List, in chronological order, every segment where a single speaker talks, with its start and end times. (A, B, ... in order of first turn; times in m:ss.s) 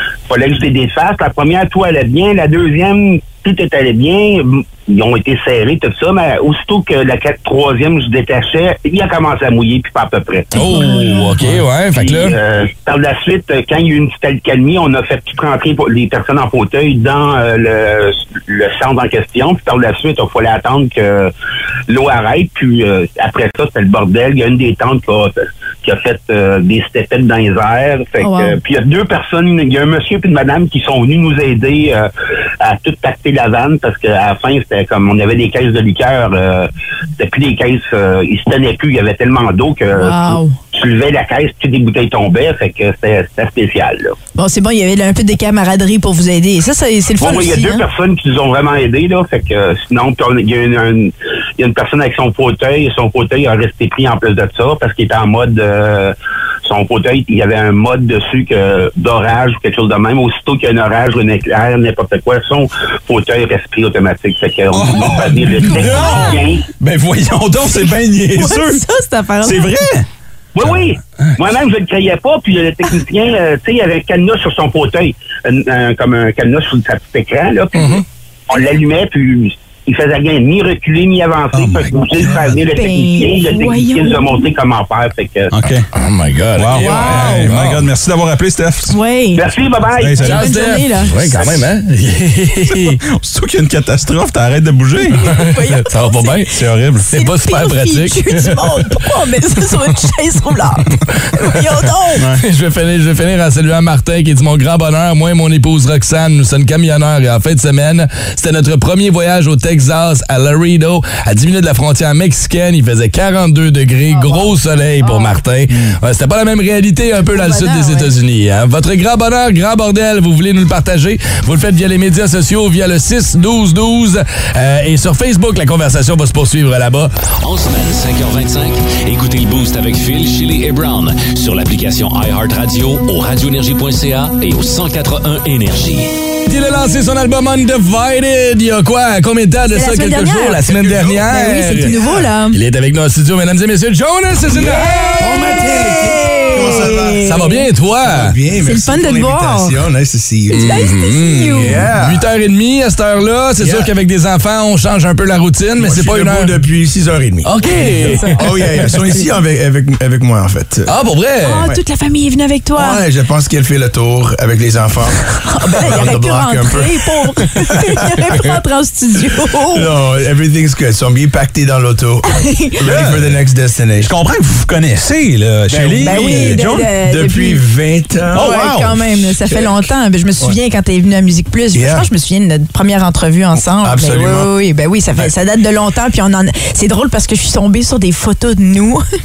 0:00.3-0:10.5 A
0:10.5-0:12.4 B
0:10.6-0:11.3 C
0:11.9-0:21.3 A
0:21.9-0:32.1 A
0:28.2-0:28.6 C
0:32.6-0:44.2 A
0:40.0-0:40.6 C
0:44.4-0:47.8 C
0:47.2-1:06.7 A
1:04.7-1:08.8 D
1:05.8-1:06.4 C
1:07.6-1:09.9 C
1:09.4-1:10.1 D
1:10.6-1:25.5 A
1:10.6-1:11.3 D
1:17.8-1:18.0 B
1:21.5-1:22.6 D
1:22.7-1:24.5 C
1:25.5-1:25.9 D
1:25.9-1:27.9 B
1:26.6-1:29.0 D
1:26.8-1:27.5 C
1:28.9-1:29.5 C
1:29.4-1:30.2 A
1:30.0-1:30.5 D
1:30.2-1:31.1 C
1:30.2-1:33.0 B
1:32.7-1:35.2 D
1:35.2-1:36.4 C
1:35.3-1:36.5 B
1:36.5-1:37.1 D
1:37.1-1:42.2 C
1:37.1-1:38.9 B
1:42.2-1:42.4 D
1:42.4-2:07.1 B
1:54.1-1:55.4 C
1:57.3-1:58.1 C
2:07.4-2:16.2 E
2:16.5-2:22.0 B
2:19.7-2:20.6 C
2:20.6-2:22.3 F
2:21.2-2:22.6 C
2:22.5-2:25.5 B
2:24.5-2:27.7 C
2:25.2-2:27.4 F
2:27.2-2:28.4 B
2:28.0-2:30.9 F
2:28.6-2:29.8 C
2:30.5-2:36.6 B
2:30.5-2:31.8 C
2:31.6-2:32.3 F
2:33.6-2:33.9 F
2:35.8-2:41.0 F
2:37.4-2:38.6 B
2:38.0-2:39.3 C
2:40.9-2:41.7 B
2:41.5-2:43.0 C
2:41.5-2:41.8 F
2:42.7-2:48.4 F
2:45.4-2:49.9 C
2:49.6-2:54.1 F
2:52.3-2:52.8 C
2:52.8-2:53.4 D
2:54.0-2:56.9 D
2:55.7-2:59.9 F
2:56.0-2:57.6 C
2:58.3-3:09.0 C
2:58.3-2:59.0 D
3:01.7-3:02.1 F
3:03.8-3:04.5 F